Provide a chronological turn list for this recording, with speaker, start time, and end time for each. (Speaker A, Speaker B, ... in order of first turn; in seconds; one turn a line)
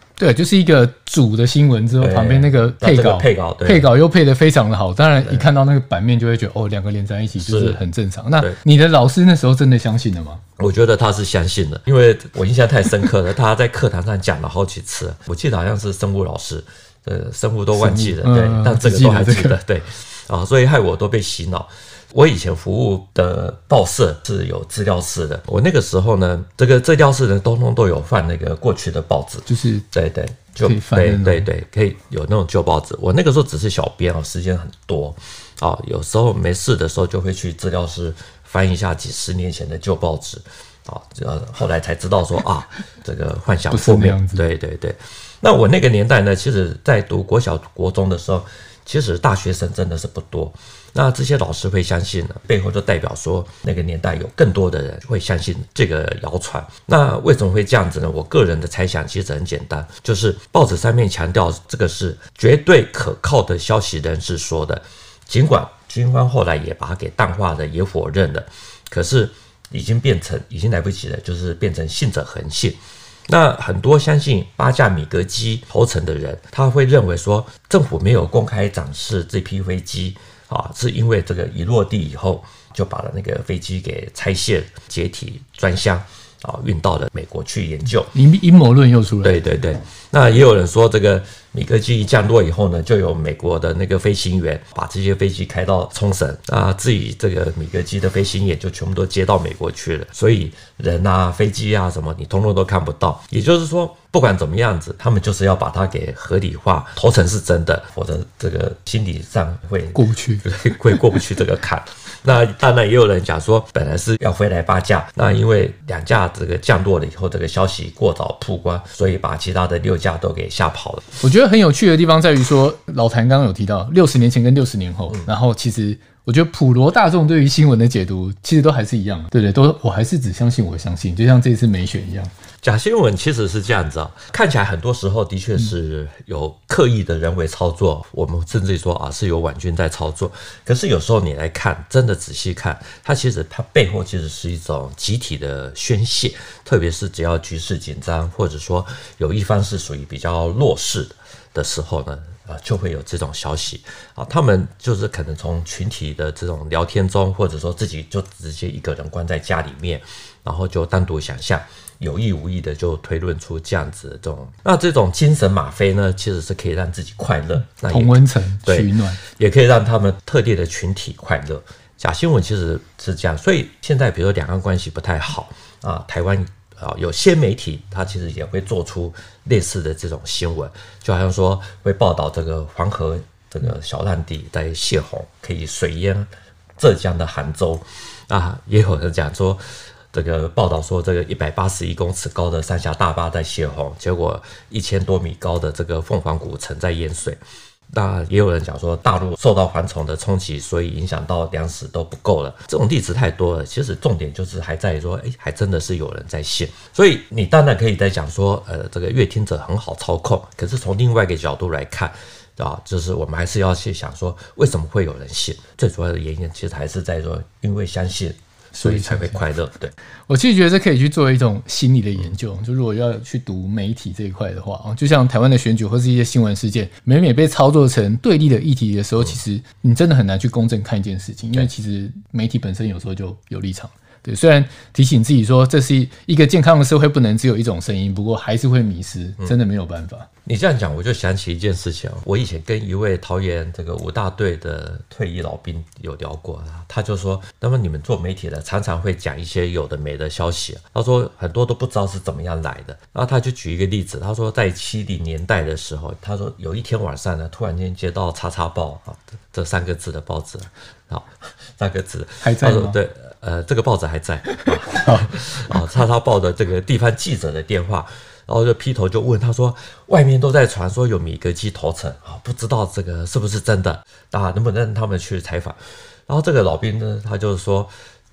Speaker A: 0.2-10.4
Speaker B: 2.0-3.9
Speaker B: 7.4-7.8
Speaker B: 10.6-88.1
Speaker A: 17.7-19.6
Speaker A: 29.4-29.8
Speaker A: 30.6-31.5
Speaker A: 43.7-44.5
Speaker A: 88.1-89.4
Speaker B: 89.2-121.1
Speaker A: 109.9-110.4
Speaker A: 121.2-132.3
Speaker B: 132.6-189.6
Speaker A: 167.9-169.2
Speaker B: 190.1-197.4
Speaker B: 197.9-219.9
Speaker A: 218.7-219.4
Speaker A: 220.3-240.3
Speaker B: 240.4-277.9
Speaker A: 262.4-263.0
Speaker A: 264.6-265.8